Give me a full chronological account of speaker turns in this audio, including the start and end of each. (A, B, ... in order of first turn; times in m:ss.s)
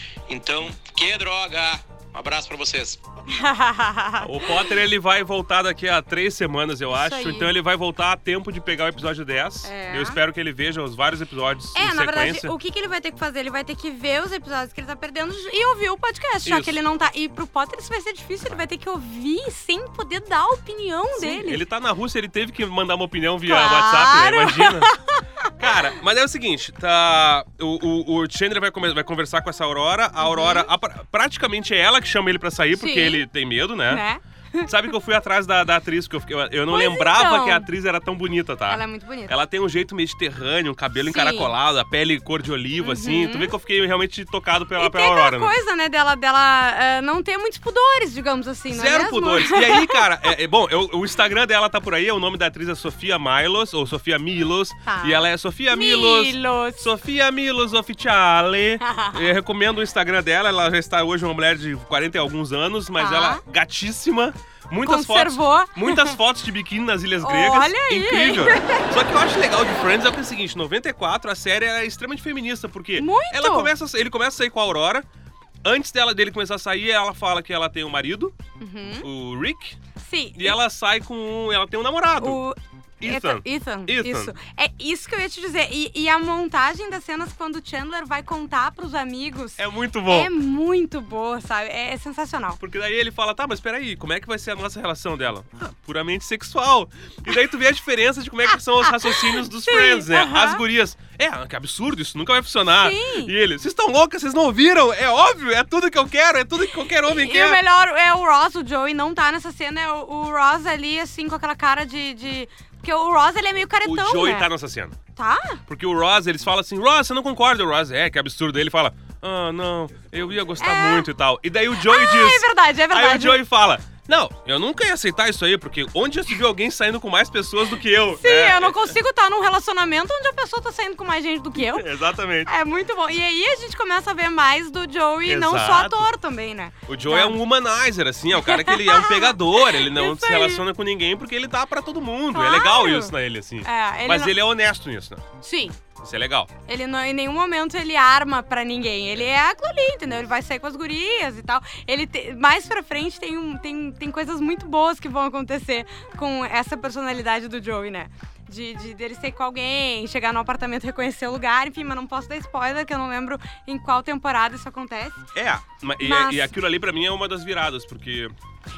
0:00.3-0:03.0 A
0:03.3-0:04.3 B
0:04.2-0:12.5 C
0:06.9-0:07.5 B
0:09.6-0:10.2 B
0:11.7-0:21.6 B
0:16.4-0:16.8 C
0:21.2-0:24.9 C
0:23.4-0:25.7 B
0:25.6-0:34.0 C
0:30.2-0:30.7 B
0:32.7-0:33.2 B
0:33.9-0:34.7 B
0:34.6-0:45.5 C
0:36.7-0:37.7 B
0:38.7-0:39.3 B
0:41.0-0:41.5 B
0:42.8-0:43.5 B
0:44.8-0:50.0 B
0:48.7-1:15.0 C
0:54.8-0:56.9 B
0:58.8-0:59.2 B
1:03.0-1:03.4 B
1:04.8-1:06.2 B
1:07.2-1:08.9 B
1:13.0-1:13.7 B
1:15.6-1:18.4 C
1:18.6-1:19.1 B
1:19.0-1:19.8 C
1:20.0-1:20.6 B
1:20.4-1:22.4 C
1:22.2-1:32.6 B
1:23.0-1:24.3 C
1:29.6-1:30.3 C
1:32.6-1:47.6 C
1:38.8-1:40.6 B
1:42.8-1:43.3 B
1:47.0-1:54.5 B
1:53.8-1:55.0 C
1:55.2-1:55.6 B
1:55.6-2:08.9 C
2:00.6-2:01.1 B
2:01.8-2:03.4 B
2:08.2-2:11.9 B
2:11.6-2:12.5 C
2:12.4-2:17.4 B
2:15.2-2:16.1 C
2:16.9-2:25.3 C
2:18.4-2:20.6 B
2:22.3-2:24.4 B
2:25.4-2:25.8 B
2:26.0-2:26.5 C
2:26.7-2:45.3 B
2:45.3-2:48.3 C
2:46.0-2:46.5 B